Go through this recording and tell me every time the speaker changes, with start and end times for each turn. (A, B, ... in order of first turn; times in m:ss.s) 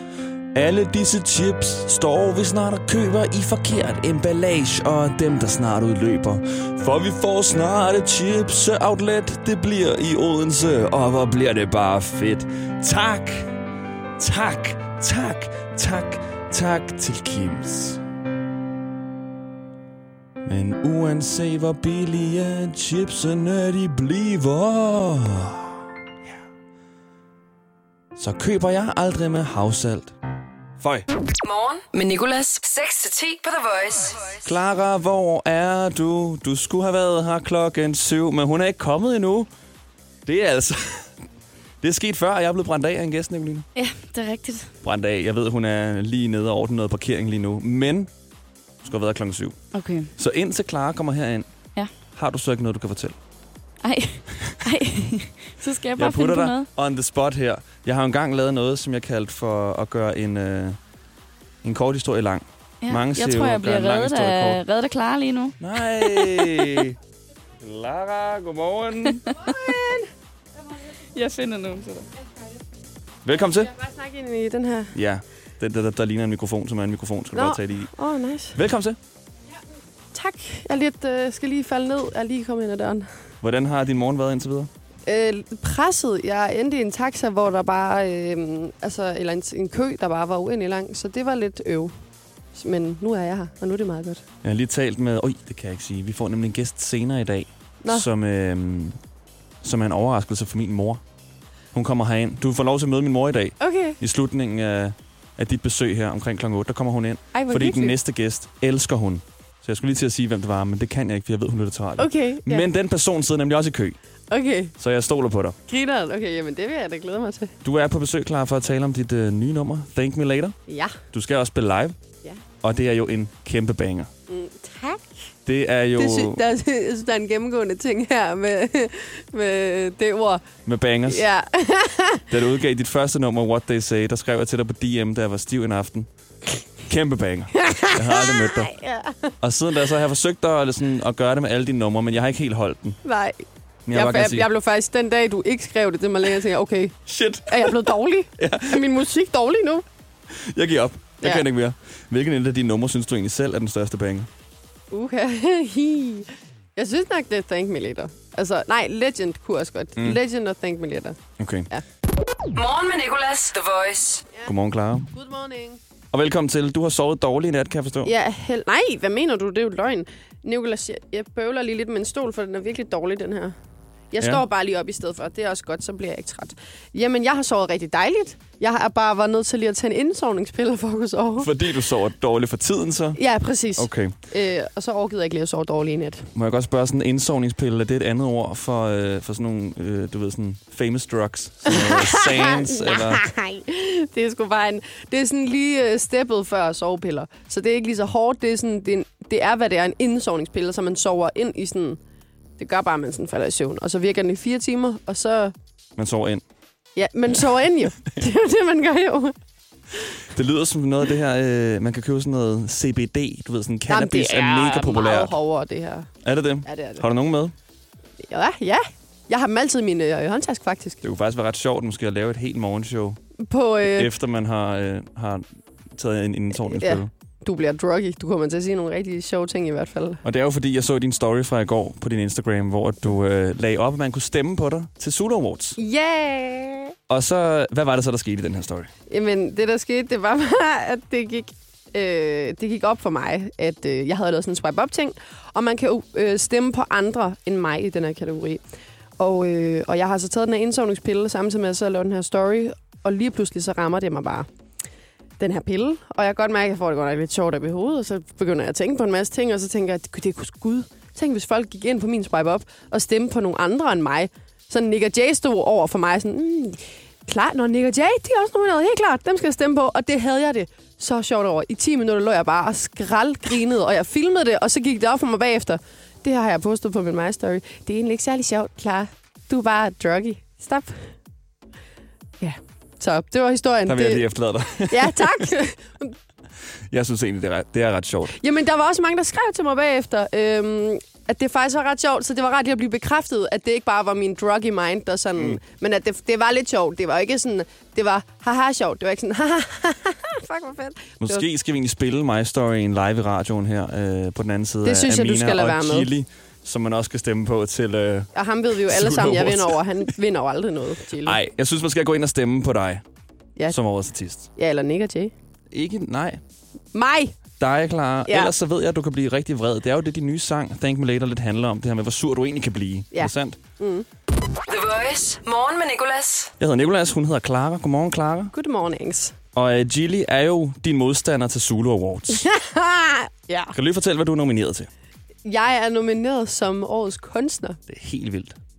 0:00.5-0:13.5 A
0:14.2-0:18.0 A
0:20.4-0:25.8 A
0:28.2-0:30.2 A
0:30.8-0:31.1 A
0:31.4-0:34.4 B
0:34.4-0:39.5 A
0:40.2-0:41.1 A
0:41.8-0:43.7 A
0:43.8-0:44.7 C
0:44.8-0:48.1 A
0:48.8-0:49.6 A
0:49.7-0:50.1 C
0:50.2-0:51.5 A
0:52.1-0:53.2 A
0:53.8-0:56.7 C
0:54.3-0:54.7 A
0:56.0-1:00.8 A
1:01.6-1:04.6 A
1:02.8-1:05.6 C
1:05.6-1:07.0 A
1:07.6-1:09.5 A
1:09.3-1:10.1 D
1:11.1-1:12.1 C
1:13.2-1:13.7 A
1:13.7-1:15.0 D
1:14.9-1:17.9 A
1:17.3-1:18.6 D
1:18.5-1:19.0 A
1:20.1-1:23.1 D
1:23.4-1:24.7 A
1:25.1-1:31.9 D
1:32.6-1:34.2 D
1:34.4-1:39.0 A
1:39.6-1:41.0 A
1:41.7-1:54.0 A
1:43.6-1:44.0 D
1:47.3-1:48.0 D
1:52.0-1:52.7 D
1:54.3-1:54.7 D
1:54.8-1:55.6 A
1:55.7-1:57.5 D
1:57.6-2:00.6 A
2:00.7-2:01.0 D
2:01.1-2:02.0 A
2:02.6-2:04.1 A
2:04.3-2:05.3 D
2:05.5-2:06.4 A
2:06.0-2:10.4 D
2:10.7-2:11.2 A
2:11.1-2:12.2 D
2:12.3-2:16.1 A
2:16.9-2:18.7 A
2:17.5-2:19.3 D
2:19.4-2:23.0 A
2:23.0-2:29.8 D
2:23.9-2:24.5 A
2:27.1-2:28.9 A
2:30.3-2:34.3 A
2:34.9-2:41.2 D
2:41.4-2:41.7 A
2:42.5-2:44.2 B
2:44.5-2:45.1 A
2:45.1-2:45.8 D
2:46.1-2:48.1 A
2:48.0-2:53.6 D
2:54.1-3:01.5 D
3:01.4-3:03.2 A
3:03.2-3:06.3 D
3:03.8-3:04.2 A
3:06.4-3:13.2 A
3:11.7-3:22.0 D
3:22.6-3:25.5 D
3:26.0-3:26.4 A
3:27.0-3:29.4 D
3:30.3-3:35.4 A
3:33.9-3:36.1 D
3:36.2-3:37.6 A
3:36.6-3:37.0 D
3:38.2-3:41.0 D
3:41.0-3:43.2 A
3:43.4-3:44.1 D
3:43.8-3:47.1 A
3:46.6-3:50.2 D
3:50.2-3:55.8 A
3:55.8-3:57.0 D
3:57.1-3:58.9 A
3:59.1-4:08.6 D
4:09.2-4:14.5 D
4:15.4-4:41.1 D
4:42.4-4:44.3 D
4:43.9-4:45.5 A
4:44.9-4:46.1 D
4:46.9-4:48.4 A
4:48.4-5:01.4 D
5:01.2-5:09.8 A
5:04.8-5:06.1 D
5:08.4-5:11.4 D
5:11.2-5:13.0 A
5:13.7-5:14.5 A
5:14.6-5:15.3 D
5:15.7-5:16.4 A
5:16.9-5:17.4 D
5:17.6-5:23.6 A
5:18.3-5:18.5 D
5:23.1-5:24.1 D
5:24.7-5:26.5 B
5:26.6-5:28.5 A
5:28.5-5:29.4 D
5:29.5-5:32.5 A
5:32.3-5:33.8 D
5:33.7-5:34.9 A
5:35.4-5:37.8 D
5:37.9-5:38.6 A